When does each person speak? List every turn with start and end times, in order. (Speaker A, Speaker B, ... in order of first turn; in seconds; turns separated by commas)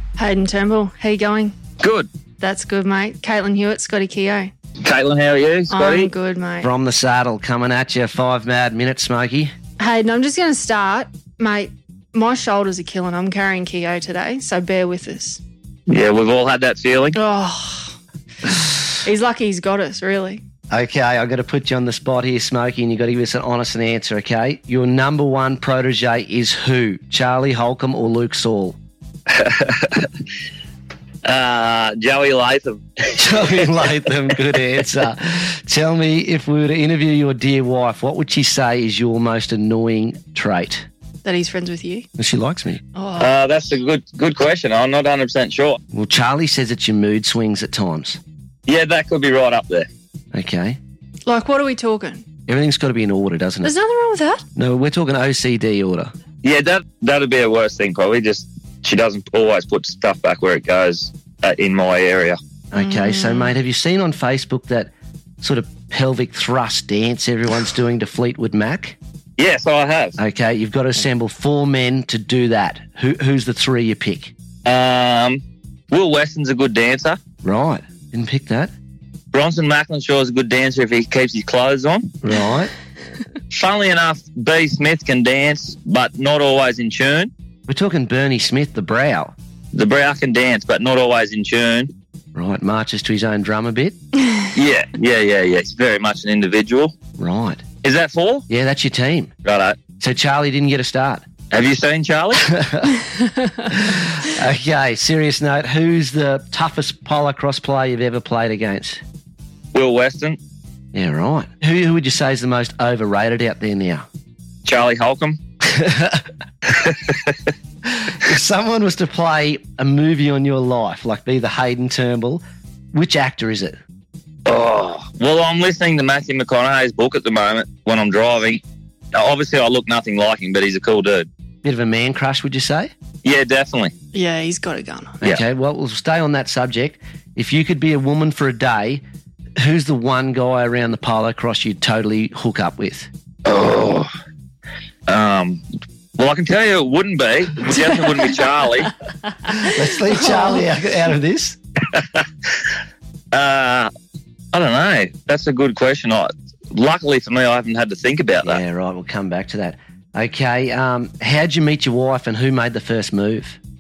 Speaker A: 0.2-1.6, Speaker B: 1.8-2.1, Speaker A: 2.4-4.5, Speaker B: 4.8-6.1, Speaker A: 5.7-6.7, Speaker C: 6.6-9.5, Speaker A: 9.8-15.4, Speaker B: 15.9-17.2, Speaker A: 17.1-18.0, Speaker A: 18.9-20.4, Speaker C: 20.7-28.8, Speaker B: 29.3-30.1, Speaker B: 31.2-34.4, Speaker C: 33.2-40.9, Speaker A: 41.2-42.1, Speaker C: 42.2-42.8, Speaker A: 43.0-43.3, Speaker B: 43.2-45.8, Speaker C: 45.9-48.2, Speaker B: 48.7-49.9, Speaker C: 50.3-50.8, Speaker A: 51.3-52.2, Speaker C: 52.5-53.7, Speaker A: 53.6-54.4, Speaker C: 54.5-56.1, Speaker B: 56.4-62.4, Speaker C: 62.7-69.0, Speaker A: 62.8-63.5, Speaker B: 69.4-70.2, Speaker C: 70.2-74.3, Speaker B: 74.7-77.2, Speaker C: 77.4-78.7, Speaker B: 79.3-82.2, Speaker C: 82.2-82.7, Speaker B: 83.5-87.3, Speaker C: 87.7-89.3, Speaker B: 89.7-91.9, Speaker C: 92.3-94.0, Speaker B: 94.5-96.9, Speaker C: 97.2-97.7, Speaker B: 97.8-98.5, Speaker C: 98.5-99.3, Speaker B: 99.5-99.8, Speaker C: 100.0-101.2, Speaker B: 101.5-102.5, Speaker C: 102.4-103.0, Speaker C: 103.7-109.0, Speaker B: 109.7-110.4, Speaker C: 110.9-114.1, Speaker B: 114.7-115.4, Speaker C: 115.6-116.3, Speaker B: 116.7-117.5, Speaker C: 117.9-123.8, Speaker B: 124.5-128.6, Speaker B: 129.1-131.3, Speaker C: 131.6-132.9, Speaker B: 133.2-133.9, Speaker A: 134.1-135.2, Speaker C: 135.2-139.0, Speaker C: 139.6-143.1, Speaker B: 143.4-144.1, Speaker B: 145.1-145.6, Speaker B: 146.2-148.9, Speaker A: 149.4-150.6, Speaker C: 149.6-151.6, Speaker B: 151.9-152.7, Speaker B: 153.3-153.9, Speaker B: 154.5-158.6, Speaker C: 158.4-163.6